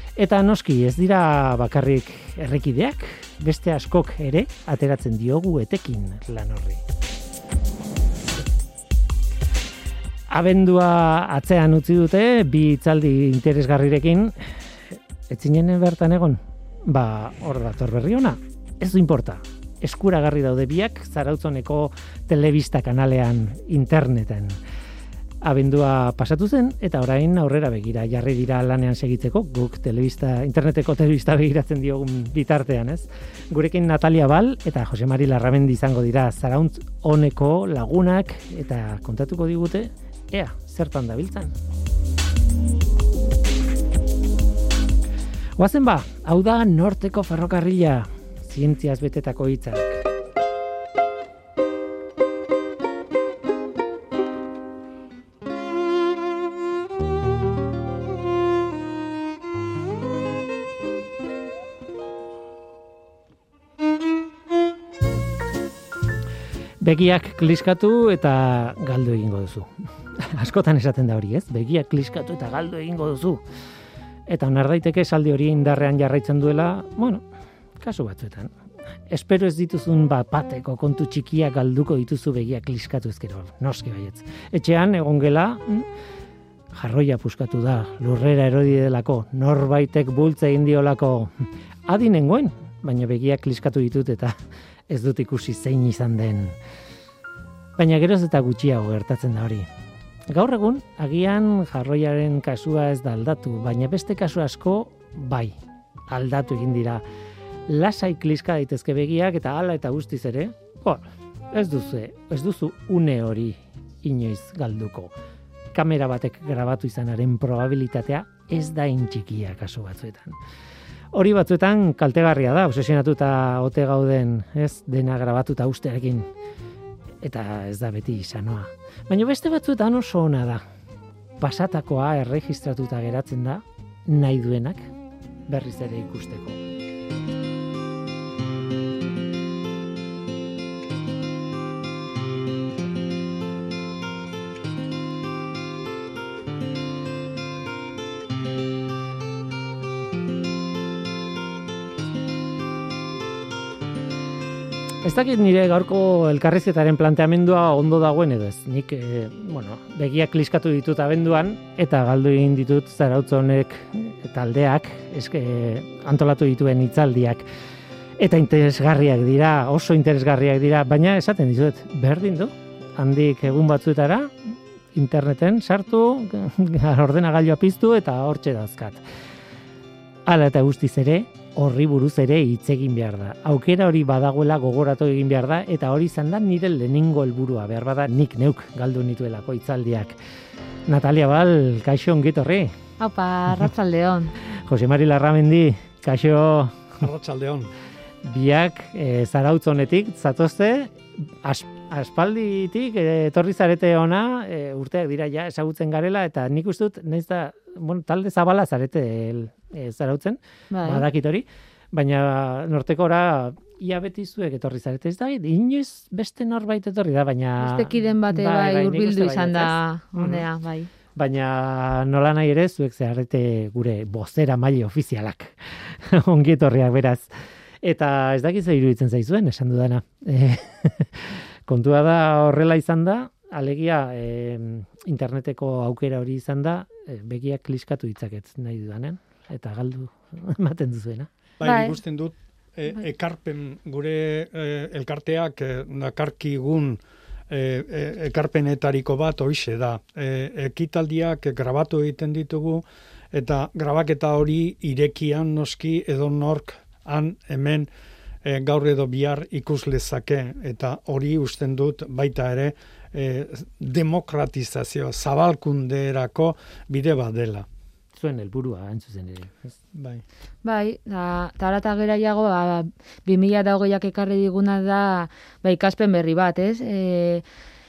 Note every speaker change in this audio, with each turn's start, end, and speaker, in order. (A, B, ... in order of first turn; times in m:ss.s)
0:00.2-0:06.8 A
0:10.3-0:14.3 A
0:15.3-0:24.6 A
0:25.4-0:41.5 A
0:45.6-0:50.1 A
1:06.8-1:13.4 A
1:14.3-1:17.2 A
1:17.8-1:18.5 A
1:19.1-1:25.9 A
1:26.7-1:34.4 A
1:34.9-1:36.5 A
1:37.8-1:39.7 A
1:40.3-1:45.5 A
1:46.1-1:47.0 A
1:47.7-1:55.1 A
1:55.7-2:00.4 A
2:01.1-2:06.2 A
2:07.2-2:10.6 A
2:11.4-2:14.9 A
2:15.5-2:16.6 A
2:35.0-2:47.5 A
2:48.2-2:59.0 A
3:00.3-3:10.2 A
3:10.9-3:12.7 A
3:13.0-3:14.3 B
3:14.6-3:17.0 A
3:17.0-3:17.7 C
3:18.2-3:40.4 A
3:30.7-3:31.0 B
3:37.6-3:40.9 B
3:41.1-3:47.3 A
3:47.8-4:01.3 A
4:01.6-4:17.9 C
4:01.6-4:02.0 B
4:18.4-4:27.7 C
4:28.2-4:29.7 A
4:29.9-4:30.2 C
4:30.6-4:37.4 B